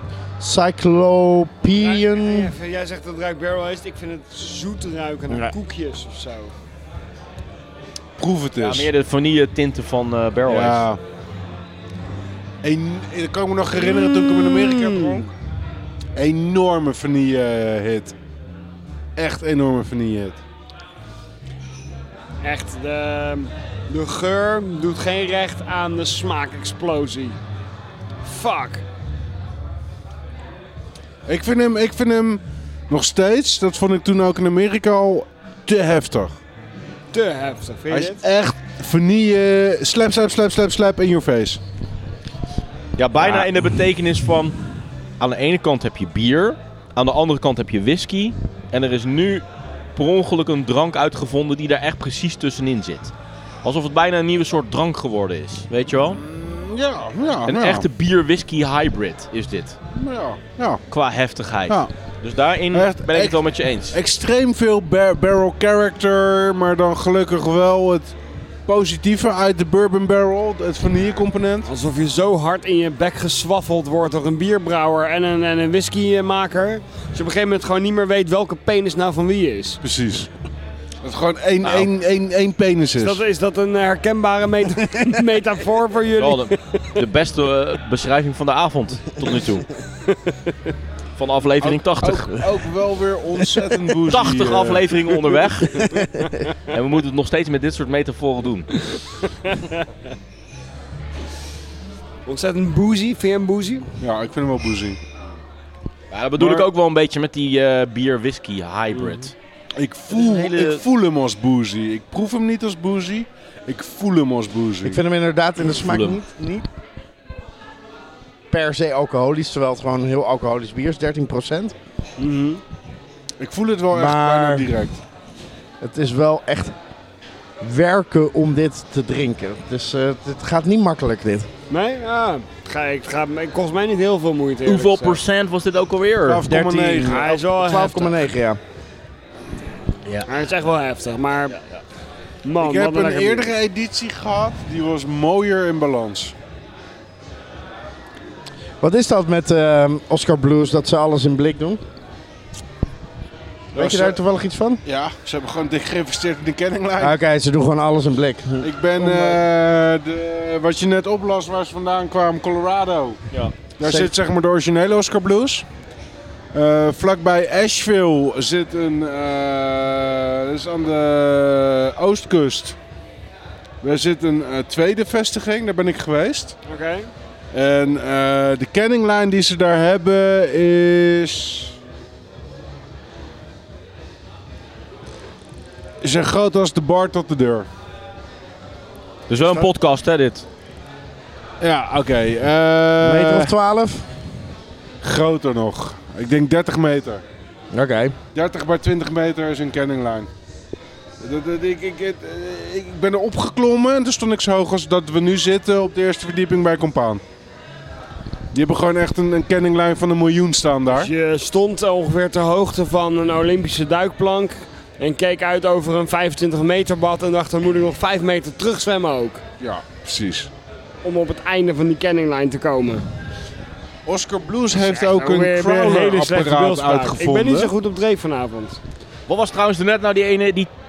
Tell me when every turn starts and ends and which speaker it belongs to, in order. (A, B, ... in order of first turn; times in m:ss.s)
0:00.4-0:02.5 A
0:01.8-0:06.5 B
0:08.2-0:08.9 C
0:08.6-0:10.8 D
0:10.5-0:11.0 C
0:12.6-0:15.3 C
0:13.8-0:15.3 B
0:16.2-0:18.1 C
0:19.2-0:20.4 C
0:22.4-0:27.4 B
0:28.2-0:28.8 B
0:31.2-0:36.4 C
0:37.1-0:38.2 B
0:37.9-0:41.6 C
0:43.0-0:44.6 D
0:43.2-0:43.5 C
0:45.2-0:49.4 D
0:50.0-0:53.1 D
0:53.6-0:56.2 D
0:56.0-0:57.9 C
0:57.4-0:59.8 D
0:59.9-1:00.8 C
1:00.9-1:04.0 D
1:02.7-1:08.1 C
1:08.6-1:11.7 C
1:11.6-1:19.8 B
1:19.8-1:20.3 C
1:21.0-1:23.2 C
1:21.6-1:21.9 D
1:23.0-1:27.0 B
1:26.2-1:29.6 D
1:30.1-1:30.3 B
1:31.2-1:32.4 D
1:31.6-1:35.2 C
1:34.1-1:35.9 D
1:35.8-1:36.1 A
1:36.7-1:38.7 D
1:42.2-1:43.9 B
1:44.0-1:45.0 C
1:46.1-1:49.3 D
1:46.4-1:46.7 C
1:49.8-1:55.0 C
1:50.1-1:50.8 D
1:54.8-1:56.7 A
1:55.7-1:56.2 D
1:58.5-2:01.7 A
2:02.2-2:02.6 B
2:03.4-2:05.0 C
2:03.9-2:04.7 A
2:05.8-2:06.7 A
2:07.6-2:11.5 A
2:11.7-2:15.2 B
2:14.6-2:16.4 D
2:16.2-2:17.3 C
2:16.5-2:18.6 A
2:17.0-2:18.2 B
2:20.2-2:21.6 B
2:22.4-2:23.5 B
2:22.6-2:26.3 C
2:28.8-2:31.8 A
2:33.7-2:34.8 A
2:33.7-2:34.2 C
2:34.8-2:37.2 C
2:37.0-2:39.4 A
2:38.6-2:43.2 C
2:43.8-2:45.6 C
2:43.8-2:44.1 A
2:46.5-2:52.8 C
2:53.8-2:56.6 C
2:56.6-2:57.1 B
2:57.5-3:01.7 C
3:06.0-3:07.7 C
3:09.3-3:10.4 D
3:11.6-3:13.5 C
3:13.0-3:14.1 A
3:15.0-3:17.2 C
3:17.7-3:18.2 A
3:18.3-3:20.3 C
3:21.2-3:27.2 C
3:28.5-3:31.1 C
3:30.9-3:39.4 B
3:39.6-3:40.5 C
3:41.0-3:43.0 B
3:44.0-3:47.7 C
3:44.7-3:48.8 B
3:49.3-3:50.7 D